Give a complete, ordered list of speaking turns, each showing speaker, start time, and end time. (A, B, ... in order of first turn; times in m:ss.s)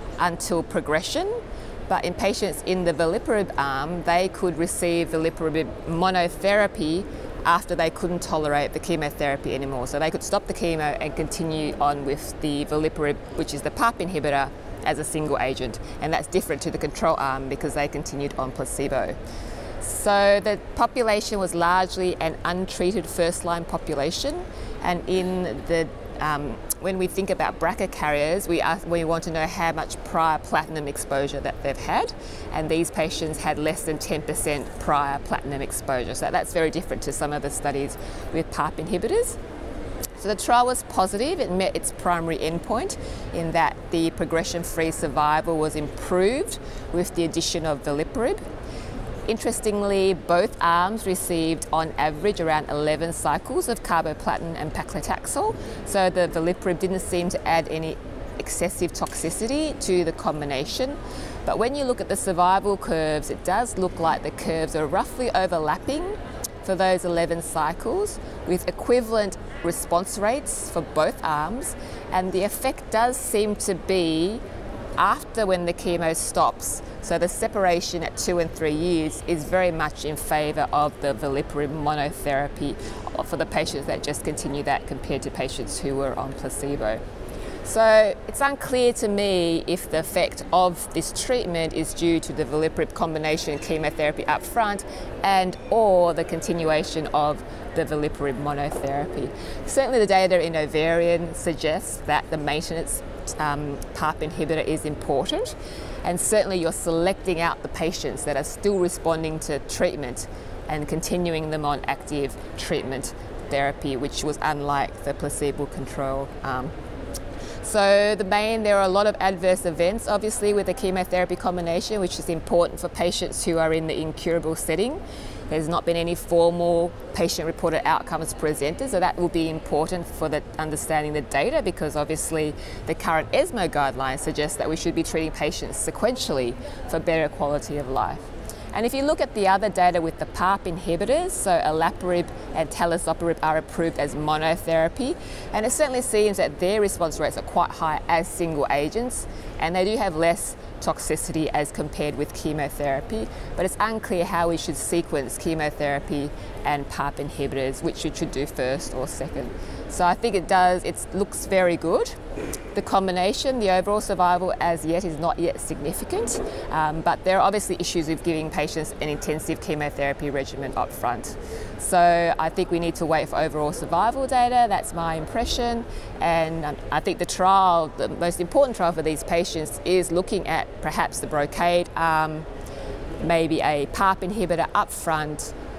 0:00.2-0:19.2 A
0:19.8-0:39.4 A
0:40.2-0:48.4 A
0:49.3-1:14.4 A
1:15.0-1:27.0 A
1:27.6-1:56.7 A
1:57.6-2:42.2 A
2:42.7-3:02.5 A
3:03.2-3:05.5 A